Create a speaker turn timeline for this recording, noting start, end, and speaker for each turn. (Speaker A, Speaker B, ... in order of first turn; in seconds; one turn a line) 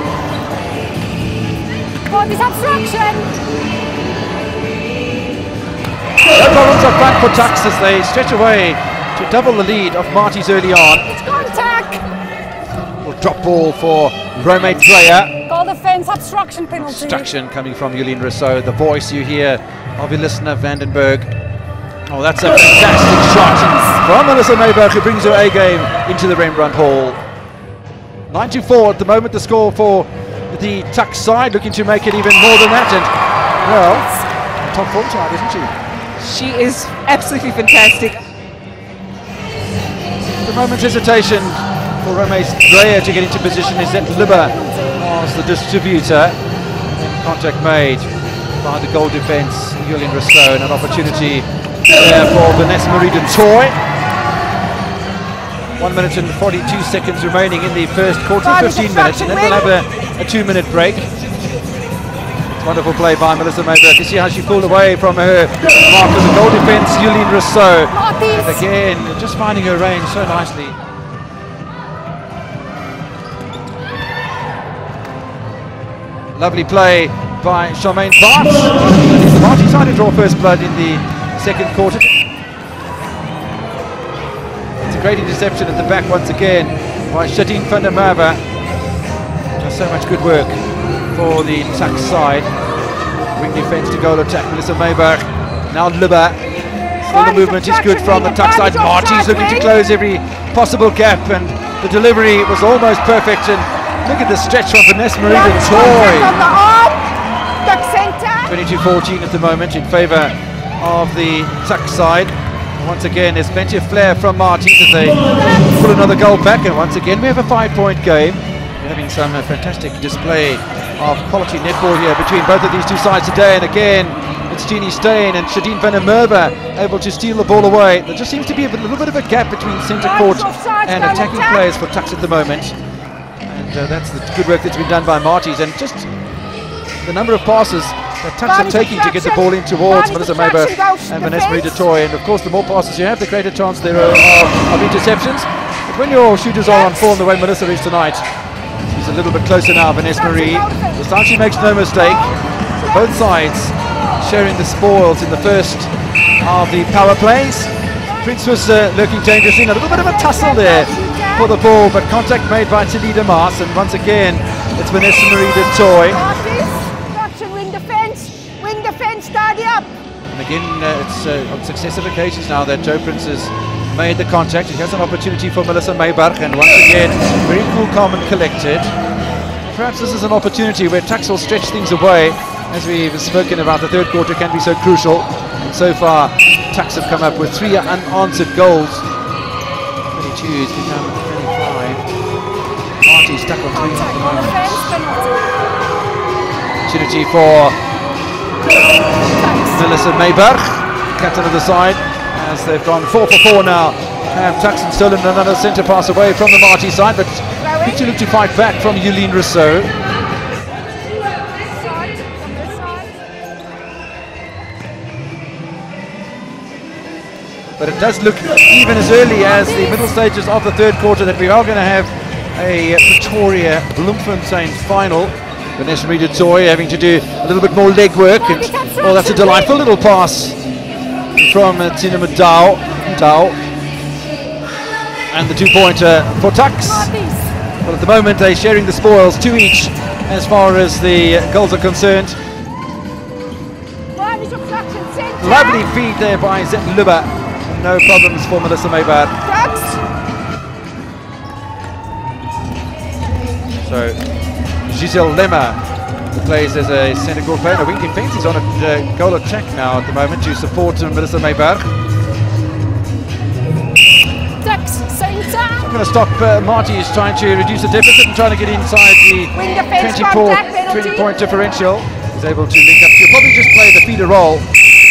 Speaker A: 2.1-3.3
Speaker B: 6.3-11.2
Speaker A: 11.1-12.0
Speaker B: 13.0-15.3
Speaker A: 15.5-17.3
Speaker B: 16.7-21.3
Speaker B: 22.1-27.2
Speaker B: 28.3-33.1
Speaker B: 33.6-34.1
Speaker A: 33.7-34.1
Speaker B: 34.6-35.7
Speaker C: 36.2-38.2
Speaker B: 40.4-46.4
Speaker A: 43.4-45.0
Speaker B: 46.9-48.1
Speaker B: 48.6-53.8
Speaker A: 51.0-51.2
Speaker B: 55.8-61.1
Speaker A: 58.4-59.7
Speaker B: 62.5-70.8
Speaker A: 67.9-68.6
Speaker B: 76.3-82.1
Speaker B: 84.9-88.4
Speaker B: 89.6-90.6
Speaker B: 91.1-92.5
Speaker B: 93.3-96.4
Speaker B: 97.0-106.4
Speaker A: 97.1-99.7
Speaker A: 105.2-107.0
Speaker A: 107.6-108.5
Speaker B: 108.5-132.8
Speaker A: 115.4-115.6
Speaker A: 130.0-131.7
Speaker B: 133.5-136.1
Speaker B: 137.0-148.2
Speaker A: 138.4-141.8
Speaker B: 148.9-152.3
Speaker A: 150.1-152.8
Speaker B: 152.8-166.2
Speaker A: 159.9-161.5
Speaker A: 166.0-169.9
Speaker B: 170.3-178.9
Speaker B: 179.6-189.1
Speaker B: 190.1-192.0
Speaker B: 193.0-194.8
Speaker A: 193.7-195.5
Speaker B: 196.8-197.8
Speaker A: 199.2-200.0
Speaker B: 199.7-209.9
Speaker A: 207.6-208.0
Speaker A: 211.2-213.1
Speaker B: 217.8-230.6
Speaker A: 219.3-220.1
Speaker A: 228.3-229.8
Speaker B: 231.3-233.6
Speaker B: 235.3-237.1
Speaker A: 236.8-237.5
Speaker B: 237.8-242.4
Speaker A: 244.1-245.9
Speaker B: 245.4-249.3
Speaker A: 249.4-250.0
Speaker B: 253.8-254.2
Speaker B: 254.9-255.8
Speaker B: 256.3-261.9
Speaker A: 264.6-265.9
Speaker B: 265.8-274.7
Speaker A: 269.5-271.6